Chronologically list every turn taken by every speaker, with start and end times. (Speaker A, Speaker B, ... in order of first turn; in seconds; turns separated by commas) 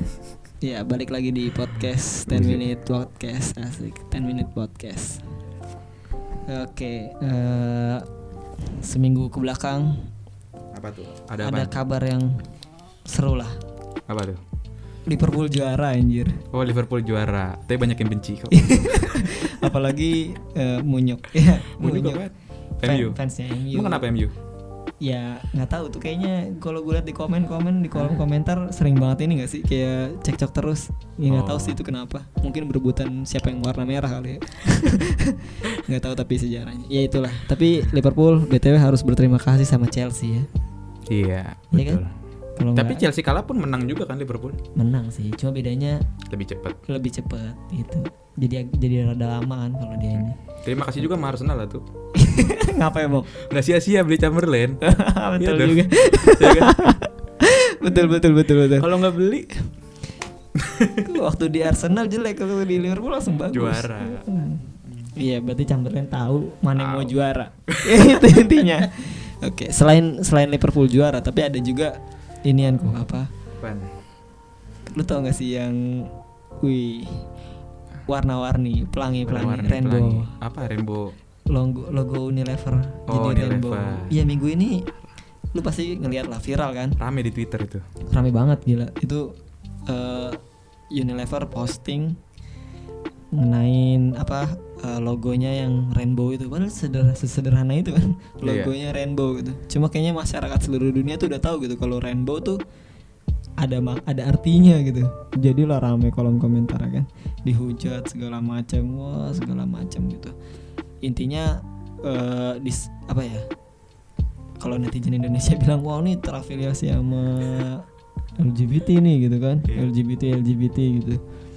Speaker A: 0.6-5.2, Speaker B: 2.3-2.6, Speaker A: 6.5-8.1, Speaker A: 8.7-10.1, Speaker B: 10.7-11.7, Speaker A: 11.4-12.4, Speaker A: 13.1-13.6, Speaker B: 14.1-14.4, Speaker A: 15.1-16.4, Speaker B: 16.5-19.4, Speaker A: 18.5-22.2, Speaker B: 21.7-23.2, Speaker A: 22.8-24.1, Speaker B: 23.7-24.3, Speaker A: 25.0-40.5, Speaker B: 27.9-28.2, Speaker B: 31.3-31.8, Speaker B: 41.1-42.1, Speaker A: 41.7-42.0, Speaker A: 42.6-43.1, Speaker B: 42.7-44.6, Speaker A: 44.8-46.0, Speaker B: 46.3-46.8, Speaker A: 46.9-50.4, Speaker B: 50.1-51.8, Speaker A: 52.1-53.3, Speaker B: 53.4-54.8, Speaker A: 54.8-58.9, Speaker B: 55.4-56.9, Speaker B: 58.7-59.5, Speaker B: 60.5-61.1, Speaker A: 61.0-64.6, Speaker B: 63.5-64.2, Speaker B: 64.8-65.1, Speaker A: 65.2-73.3, Speaker B: 66.8-67.1, Speaker B: 67.7-68.3, Speaker B: 73.6-73.9, Speaker A: 74.9-76.1, Speaker A: 76.6-77.3, Speaker A: 78.1-80.3, Speaker B: 79.2-81.1, Speaker A: 81.5-84.9, Speaker B: 83.1-84.2, Speaker A: 85.5-87.0, Speaker B: 87.0-87.8, Speaker A: 88.1-89.3, Speaker A: 89.9-90.4, Speaker A: 90.9-92.2, Speaker A: 93.3-102.6, Speaker B: 98.4-98.7, Speaker A: 103.6-110.3, Speaker A: 111.0-113.4, Speaker A: 114.6-117.8, Speaker A: 118.4-121.2